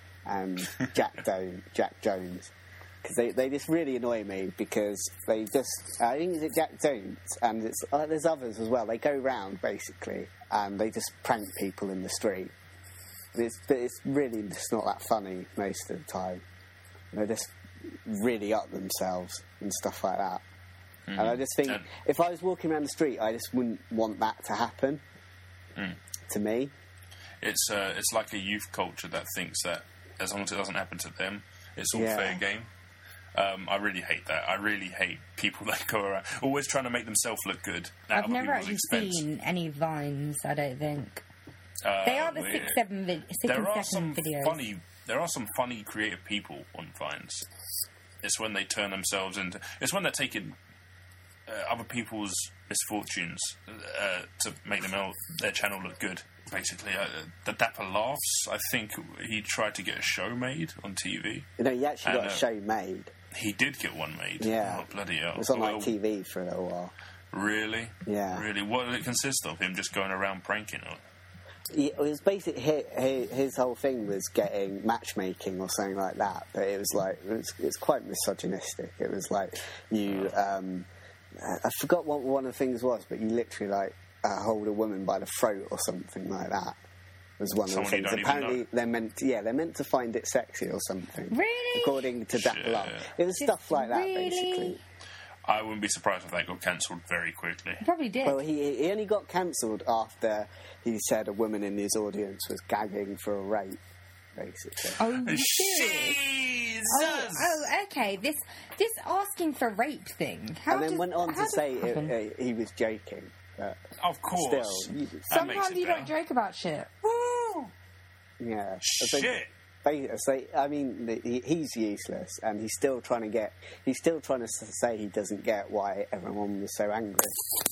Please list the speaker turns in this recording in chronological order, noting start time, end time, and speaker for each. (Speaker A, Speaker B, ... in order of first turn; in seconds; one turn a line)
Speaker A: 0.2-12.5
Speaker A: 13.3-16.4
Speaker A: 17.1-20.4
Speaker B: 21.1-21.9
Speaker A: 21.1-25.0
Speaker A: 26.3-26.7
Speaker B: 27.4-32.7
Speaker A: 31.9-32.4
Speaker B: 33.3-39.2
Speaker C: 38.1-41.2
Speaker B: 41.8-42.8
Speaker C: 42.0-44.6
Speaker B: 43.4-47.4
Speaker B: 48.2-50.5
Speaker B: 51.5-61.5
Speaker A: 61.6-63.1
Speaker B: 62.0-62.4
Speaker B: 63.3-65.9
Speaker A: 64.4-66.9
Speaker B: 67.3-71.0
Speaker A: 68.0-68.4
Speaker A: 71.7-86.8
Speaker B: 80.1-80.3
Speaker A: 87.4-94.8
Speaker B: 87.7-88.6
Speaker C: 91.3-92.1
Speaker B: 92.3-93.1
Speaker C: 93.4-94.8
Speaker B: 95.5-97.8
Speaker C: 97.8-98.4
Speaker A: 98.2-103.8
Speaker A: 104.3-105.0
Speaker C: 105.0-106.2
Speaker B: 105.0-107.6
Speaker C: 106.9-112.1
Speaker A: 110.7-113.8
Speaker B: 114.0-116.1
Speaker A: 114.3-115.3
Speaker C: 115.3-116.9
Speaker B: 117.0-117.7
Speaker A: 118.4-127.5
Speaker B: 118.8-119.5